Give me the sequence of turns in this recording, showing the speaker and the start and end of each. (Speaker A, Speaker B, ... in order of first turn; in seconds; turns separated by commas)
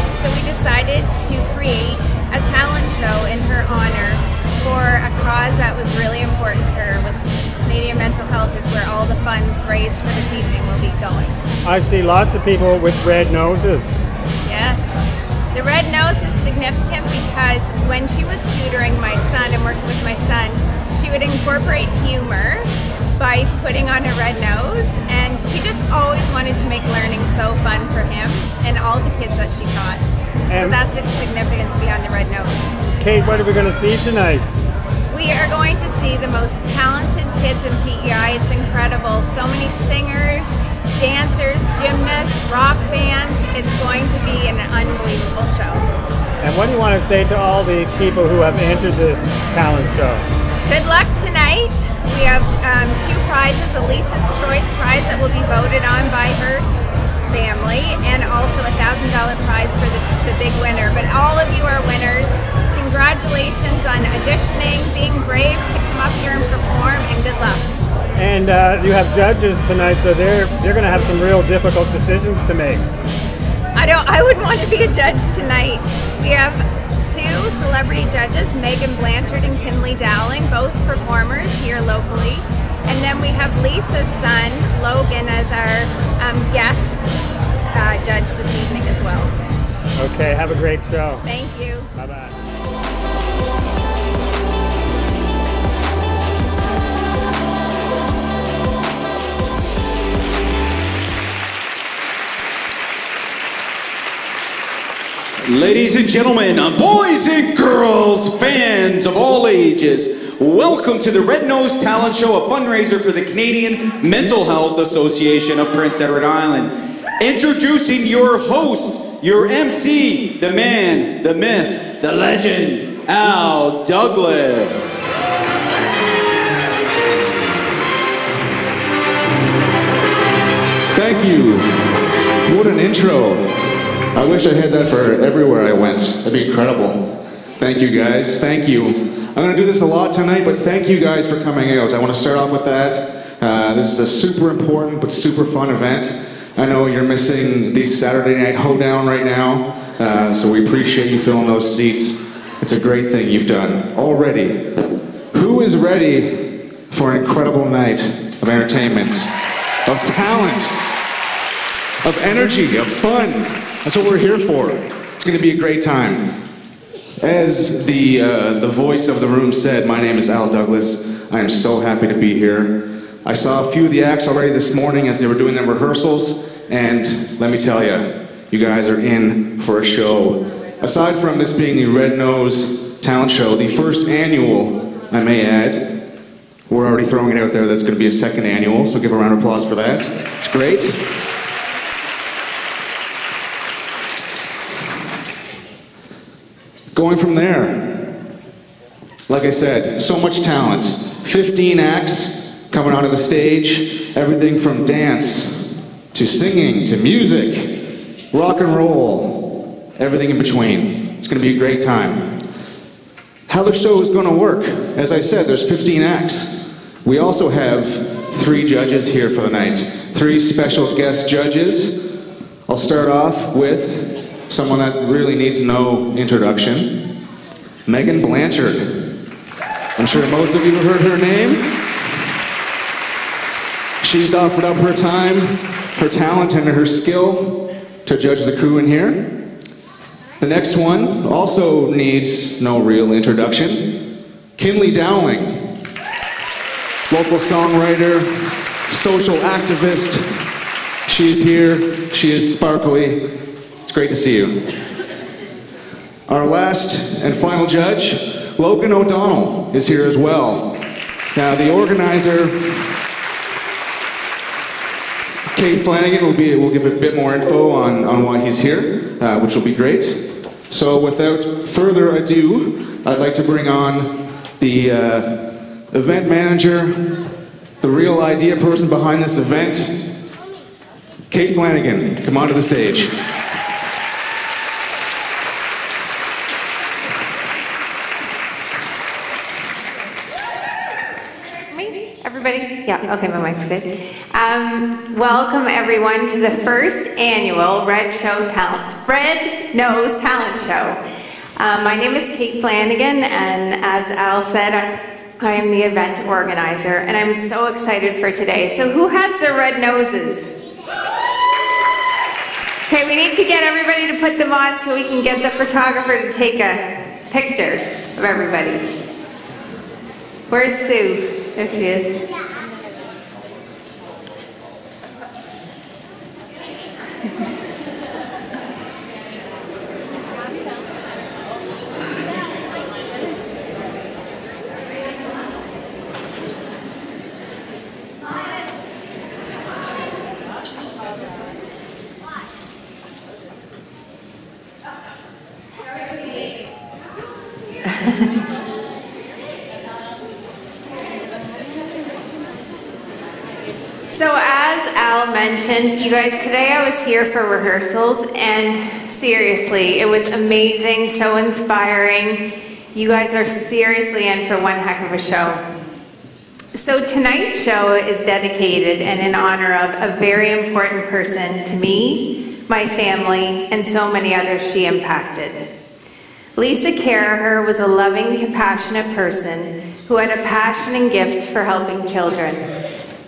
Speaker A: 0.2-11.4, Speaker B: 11.7-13.9, Speaker A: 14.4-14.9, Speaker A: 15.5-30.0, Speaker B: 30.5-30.8, Speaker A: 30.6-32.7, Speaker B: 33.0-34.6, Speaker A: 35.1-45.9, Speaker B: 46.4-50.2, Speaker A: 50.7-56.7, Speaker A: 57.3-67.7, Speaker B: 68.2-72.9, Speaker A: 73.8-87.1, Speaker A: 87.7-89.3, Speaker B: 90.0-91.2, Speaker A: 91.2-91.9, Speaker B: 92.0-92.3, Speaker C: 105.4-125.0, Speaker D: 130.9-131.7, Speaker D: 132.5-133.5, Speaker D: 134.1-159.3, Speaker D: 159.9-160.7, Speaker D: 162.0-166.3, Speaker D: 167.2-186.0, Speaker D: 186.7-191.0, Speaker D: 196.9-198.1, Speaker D: 199.3-212.3, Speaker D: 213.5-227.0, Speaker D: 227.9-229.1, Speaker D: 230.0-231.7, Speaker D: 234.0-239.4, Speaker D: 240.4-244.0, Speaker D: 244.6-245.7, Speaker D: 247.1-250.3, Speaker D: 251.1-254.6, Speaker D: 256.3-262.9, Speaker D: 265.5-277.1, Speaker D: 277.8-280.0, Speaker D: 281.3-283.1, Speaker A: 291.7-301.0, Speaker A: 301.6-304.9, Speaker A: 305.4-310.5, Speaker A: 312.9-316.8, Speaker A: 317.3-318.8, Speaker A: 320.5-322.1, Speaker A: 354.1-362.4, Speaker A: 362.9-365.6, Speaker A: 366.8-375.6, Speaker A: 376.6-382.6